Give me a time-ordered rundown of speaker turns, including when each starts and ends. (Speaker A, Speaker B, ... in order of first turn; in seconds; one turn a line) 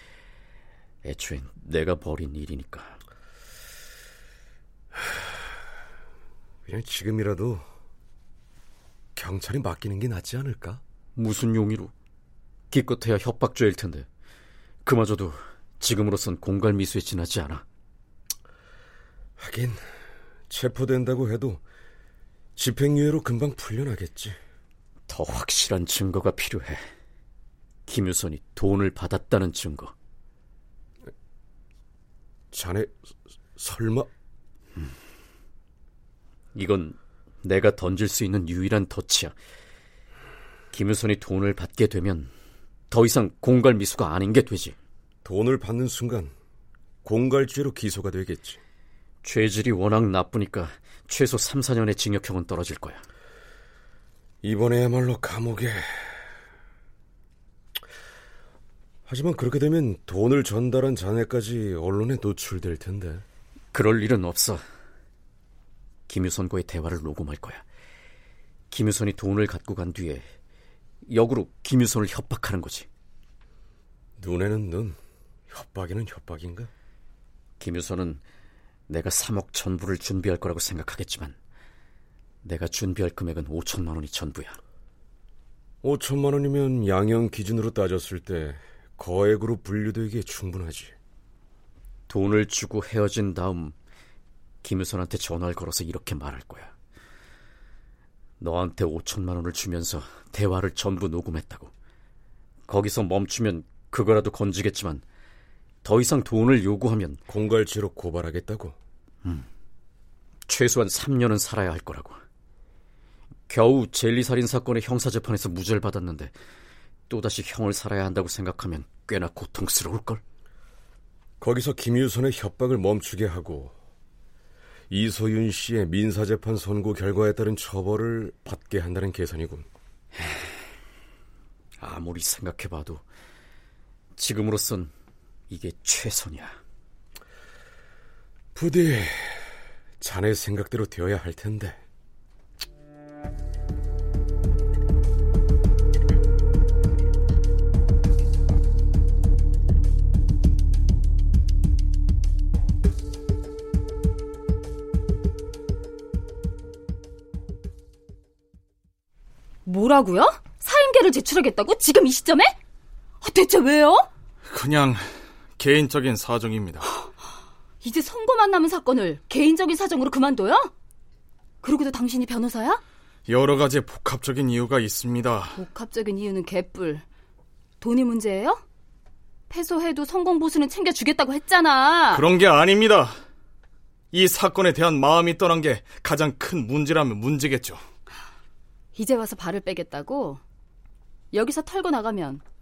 Speaker A: 1.0-3.0
Speaker B: 6.7-7.6
Speaker B: 9.2-10.8
Speaker A: 11.2-11.9
Speaker A: 12.7-14.1
Speaker A: 14.8-17.6
Speaker B: 19.4-19.8
Speaker B: 20.5-21.6
Speaker B: 22.6-24.4
Speaker A: 25.1-26.8
Speaker A: 27.9-29.9
Speaker B: 32.5-33.0
Speaker B: 33.6-34.1
Speaker A: 36.5-39.3
Speaker A: 40.7-42.3
Speaker A: 42.9-44.8
Speaker B: 45.2-46.3
Speaker B: 47.0-48.6
Speaker A: 49.2-53.0
Speaker B: 54.4-56.1
Speaker B: 59.1-63.2
Speaker A: 63.7-64.6
Speaker A: 66.1-67.6
Speaker A: 68.7-70.2
Speaker A: 71.0-72.9
Speaker B: 74.2-75.0
Speaker B: 75.5-76.7
Speaker A: 77.6-78.2
Speaker A: 78.9-81.3
Speaker A: 82.4-84.6
Speaker B: 85.8-90.9
Speaker A: 92.1-93.7
Speaker A: 94.6-96.7
Speaker A: 98.4-101.7
Speaker A: 102.7-105.0
Speaker A: 105.8-107.2
Speaker B: 107.3-108.8
Speaker A: 110.5-112.2
Speaker A: 113.5-116.3
Speaker A: 117.1-120.2
Speaker B: 121.4-123.7
Speaker B: 124.9-129.7
Speaker A: 131.8-133.0
Speaker A: 134.2-134.9
Speaker A: 135.5-136.6
Speaker B: 138.5-141.8
Speaker C: 159.6-162.6
Speaker C: 163.2-164.1
Speaker D: 164.5-166.8
Speaker C: 167.8-170.7
Speaker C: 171.6-172.8
Speaker D: 173.3-175.6
Speaker C: 175.6-177.0
Speaker C: 177.8-178.6
Speaker C: 179.5-182.2
Speaker D: 182.1-183.2
Speaker D: 184.1-187.8
Speaker C: 188.9-190.4
Speaker C: 191.3-192.4